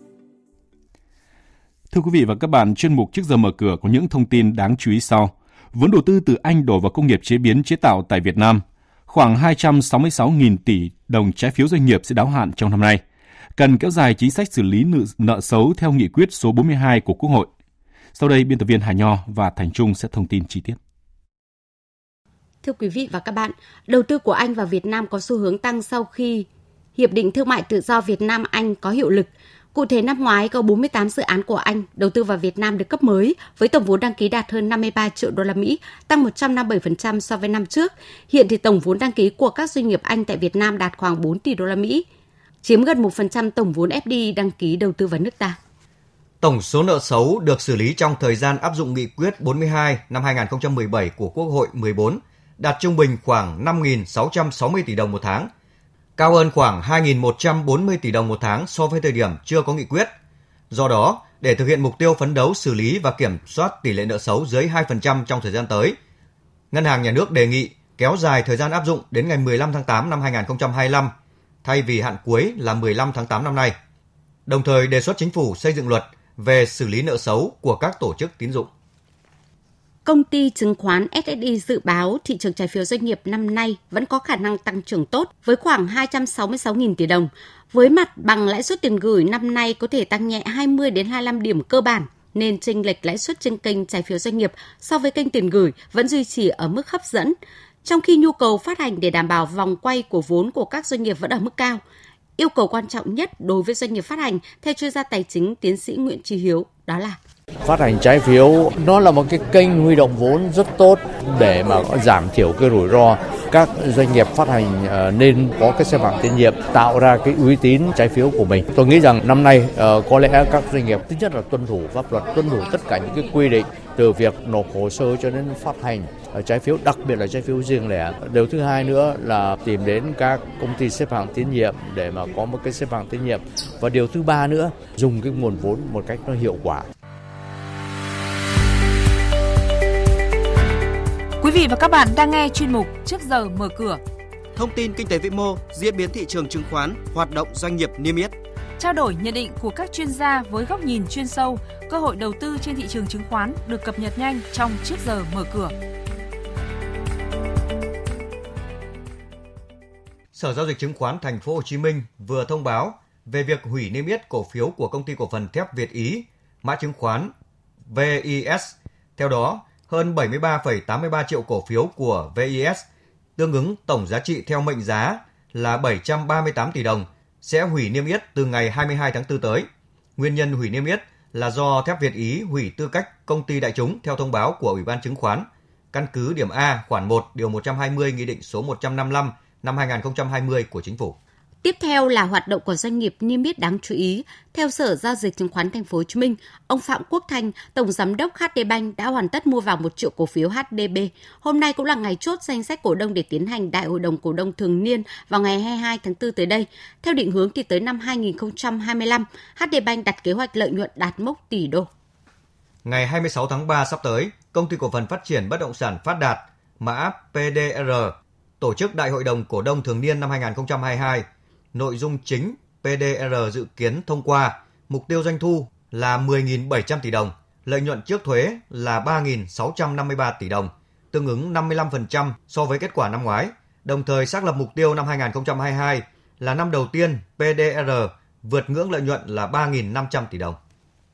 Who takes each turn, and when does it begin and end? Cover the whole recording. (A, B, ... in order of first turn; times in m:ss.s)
0:01.9-0:13.0 A
0:13.6-0:17.5 A
0:18.2-0:20.8 A
0:22.6-0:42.0 B
0:42.6-0:45.6 B
0:46.4-0:55.5 C
0:56.2-1:00.1 C
1:00.7-1:06.0 C
1:06.7-1:11.1 C
1:11.6-1:13.7 C
1:14.5-1:18.7 C
1:20.0-1:41.8 B
1:42.4-1:47.2 B
1:47.6-2:16.9 D
2:21.4-2:24.0 E
2:24.6-2:28.3 F
2:28.8-2:35.7 E
2:40.3-2:47.3 C
2:47.9-2:52.8 C
2:53.4-3:11.2 C
3:11.6-3:31.9 B
3:32.8-4:00.6 C